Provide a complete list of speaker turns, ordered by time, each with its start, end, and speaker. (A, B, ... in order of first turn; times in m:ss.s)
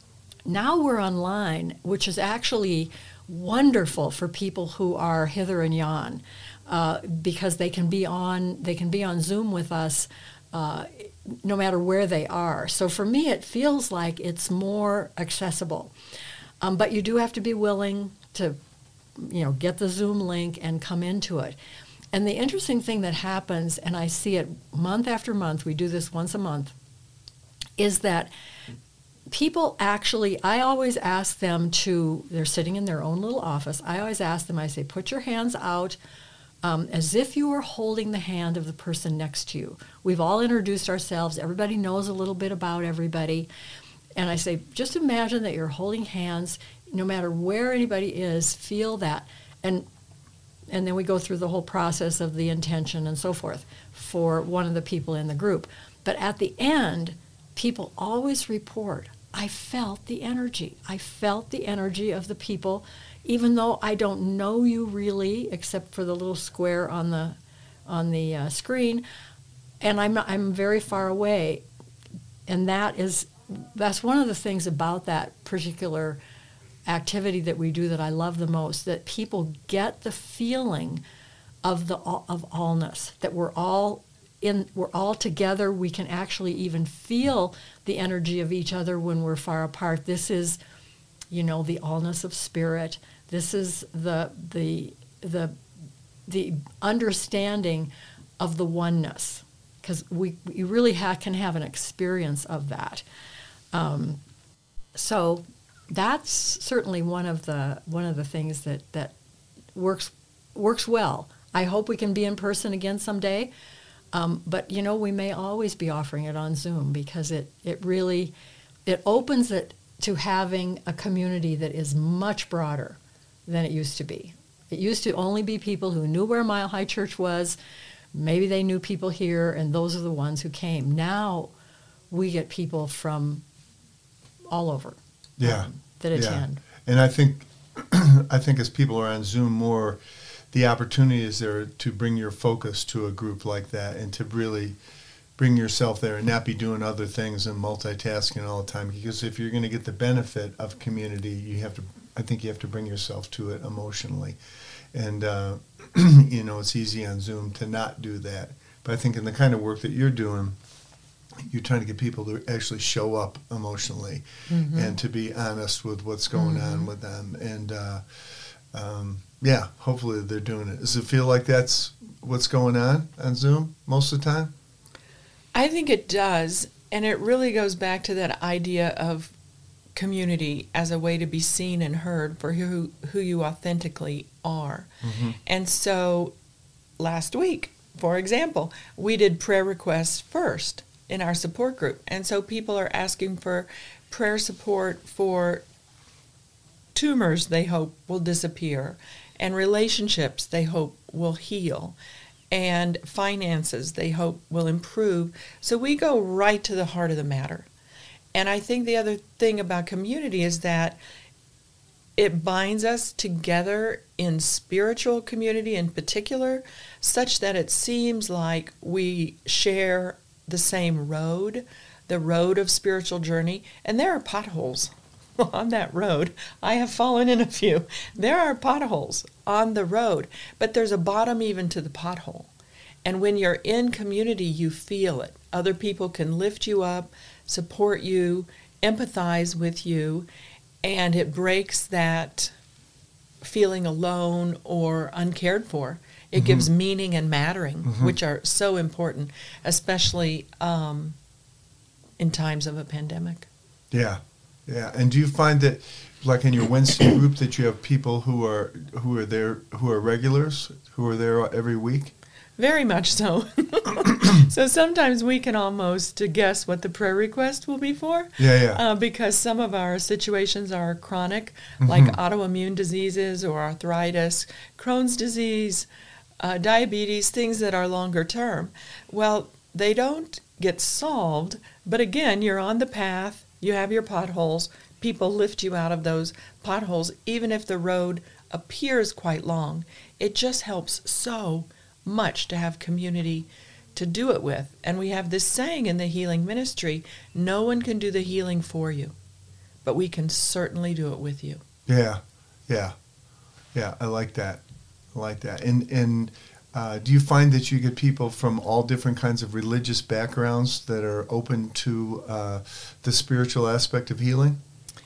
0:00.4-0:15.9 A
0:16.6-0:18.6 A
0:19.2-0:21.6 A
0:22.1-0:26.7 A
0:27.8-0:28.3 A
0:29.3-0:36.0 A
0:36.6-0:43.5 A
0:44.2-0:49.8 A
0:50.7-1:09.0 A
1:09.8-1:11.6 A
1:12.5-1:16.2 A
1:16.8-1:21.0 A
1:21.6-1:30.6 A
1:31.3-1:35.5 A
1:36.3-1:43.0 A
1:43.7-1:44.2 A
1:44.9-1:49.1 A
1:49.7-1:53.5 A
1:54.1-1:58.3 A
1:58.8-2:07.6 A
2:08.1-2:11.5 A
2:12.1-2:13.4 A
2:14.5-2:16.6 A
2:15.4-2:20.0 B
2:20.5-2:24.8 B
2:25.4-2:34.4 B
2:34.9-2:40.6 B
2:41.4-2:48.0 B
2:44.5-2:45.0 C
2:46.4-2:46.9 C
2:48.7-2:54.5 B
2:55.5-2:59.3 C
2:59.9-3:04.9 C
3:05.0-3:05.4 B
3:05.4-3:06.3 C
3:07.0-3:15.6 C
3:16.9-3:22.0 C
3:22.5-3:27.7 C
3:28.3-3:31.0 C
3:32.2-3:52.5 C
3:53.0-4:00.3 C
4:00.8-4:02.5 C
4:03.4-4:11.2 C
4:06.3-4:06.7 B
4:07.8-4:08.1 B
4:12.2-4:13.5 C
4:13.9-4:22.1 B
4:22.6-4:35.9 C
4:28.4-4:28.8 B
4:31.8-4:32.2 B
4:36.4-4:59.1 C
4:59.8-5:01.6 C
5:01.9-5:02.9 B
5:03.7-5:04.6 B
5:05.1-5:14.6 B